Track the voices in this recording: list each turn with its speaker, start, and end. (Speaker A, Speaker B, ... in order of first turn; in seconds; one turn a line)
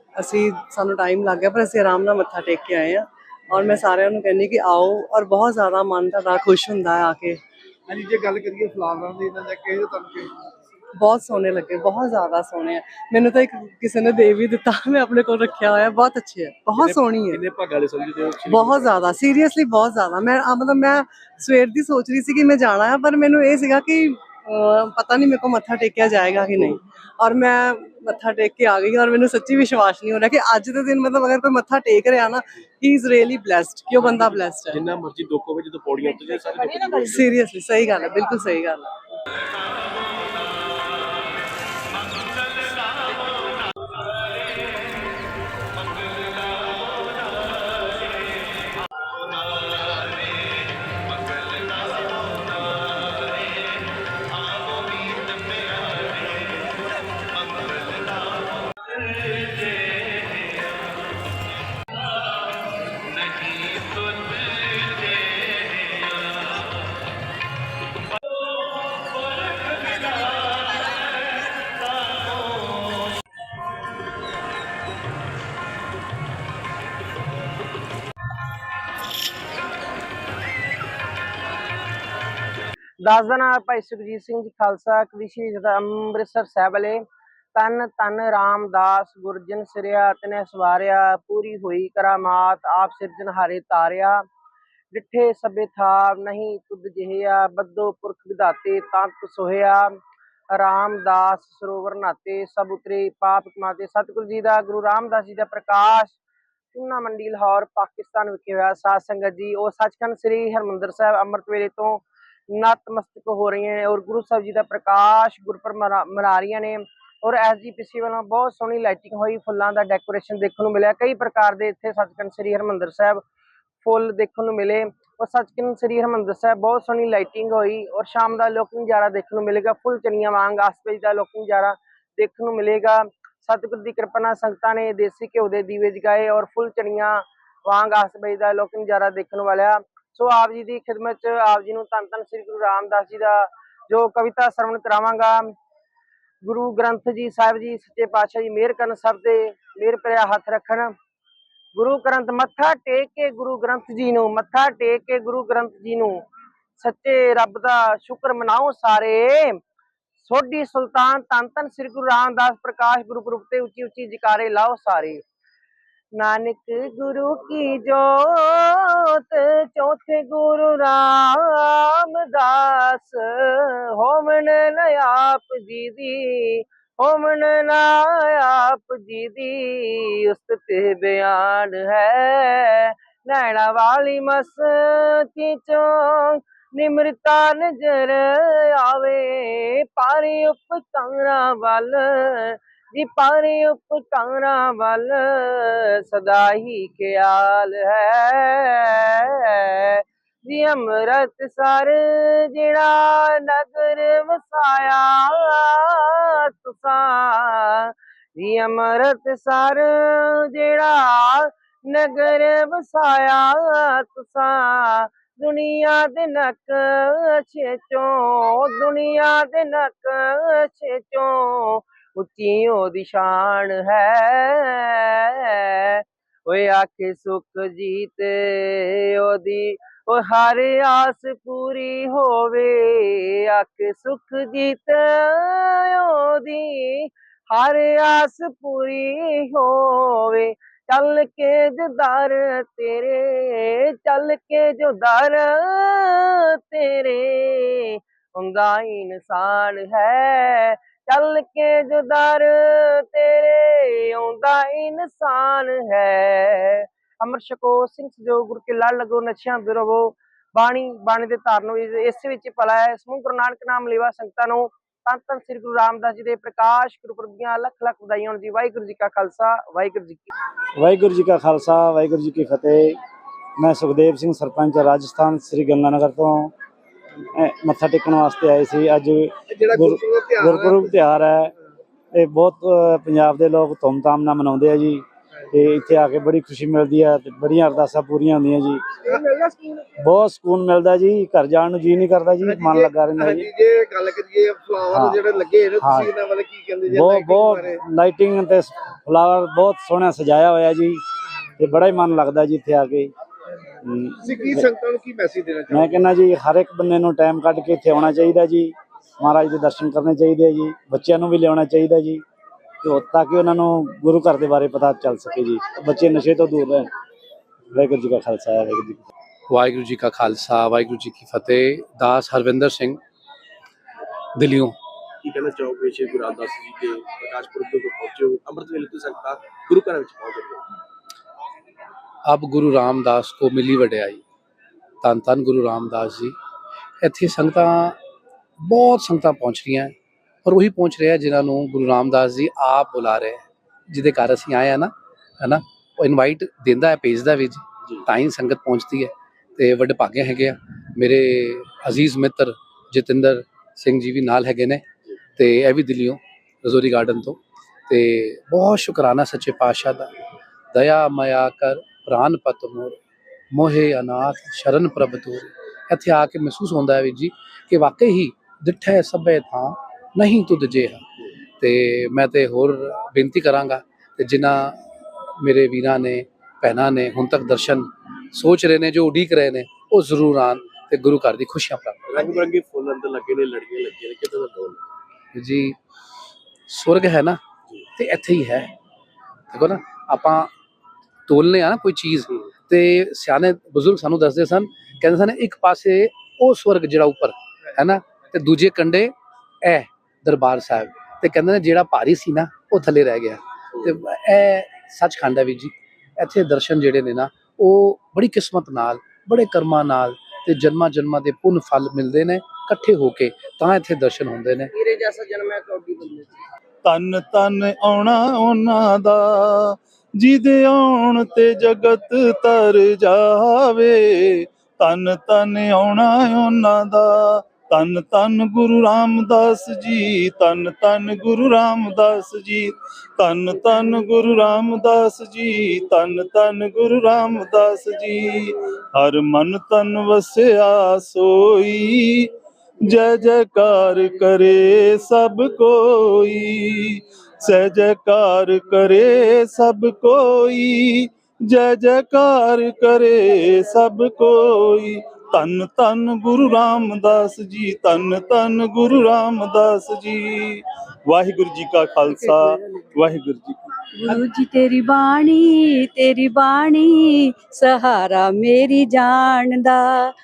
Speaker A: 0.2-7.4
Speaker B: 7.9-10.3
Speaker A: 11.0-17.4
Speaker C: 16.7-19.1
Speaker A: 18.5-34.9
Speaker C: 34.0-37.4
Speaker A: 37.1-38.9
Speaker D: 51.3-51.6
Speaker D: 55.2-55.6
Speaker D: 63.3-64.6
Speaker E: 83.0-87.0
Speaker E: 87.5-94.2
Speaker E: 94.9-100.0
Speaker E: 100.5-106.2
Speaker E: 106.7-123.2
Speaker E: 123.8-145.5
Speaker E: 146.4-150.9
Speaker E: 151.8-156.3
Speaker E: 156.8-159.6
Speaker E: 160.2-165.2
Speaker E: 166.2-270.3
Speaker F: 270.8-273.0
Speaker F: 273.6-276.5
Speaker F: 277.4-281.5
Speaker B: 279.5-280.9
Speaker F: 282.1-288.9
Speaker B: 289.1-289.8
Speaker F: 290.0-293.5
Speaker B: 292.4-297.8
Speaker F: 294.9-295.2
Speaker F: 295.8-296.1
Speaker F: 296.9-301.0
Speaker F: 301.6-303.1
Speaker F: 303.8-304.6
Speaker B: 304.3-305.9
Speaker F: 305.7-312.2
Speaker F: 312.8-316.9
Speaker F: 317.7-319.0
Speaker D: 319.5-323.0
Speaker D: 324.4-324.8
Speaker C: 325.2-330.7
Speaker D: 332.2-334.2
Speaker D: 335.0-336.3
Speaker D: 337.0-338.0
Speaker D: 338.6-339.9
Speaker D: 340.4-354.8
Speaker D: 355.4-360.1
Speaker D: 360.7-363.0
Speaker D: 363.5-371.1
Speaker D: 371.6-374.8
Speaker D: 375.4-382.0
Speaker C: 382.1-384.8
Speaker B: 382.2-382.5
Speaker D: 385.4-385.8
Speaker D: 386.7-387.4
Speaker D: 388.0-388.7
Speaker D: 389.5-390.5
Speaker D: 391.3-414.7
Speaker E: 414.7-416.4
Speaker G: 416.8-442.3
Speaker G: 442.8-463.6
Speaker H: 464.0-467.0
Speaker H: 467.6-469.8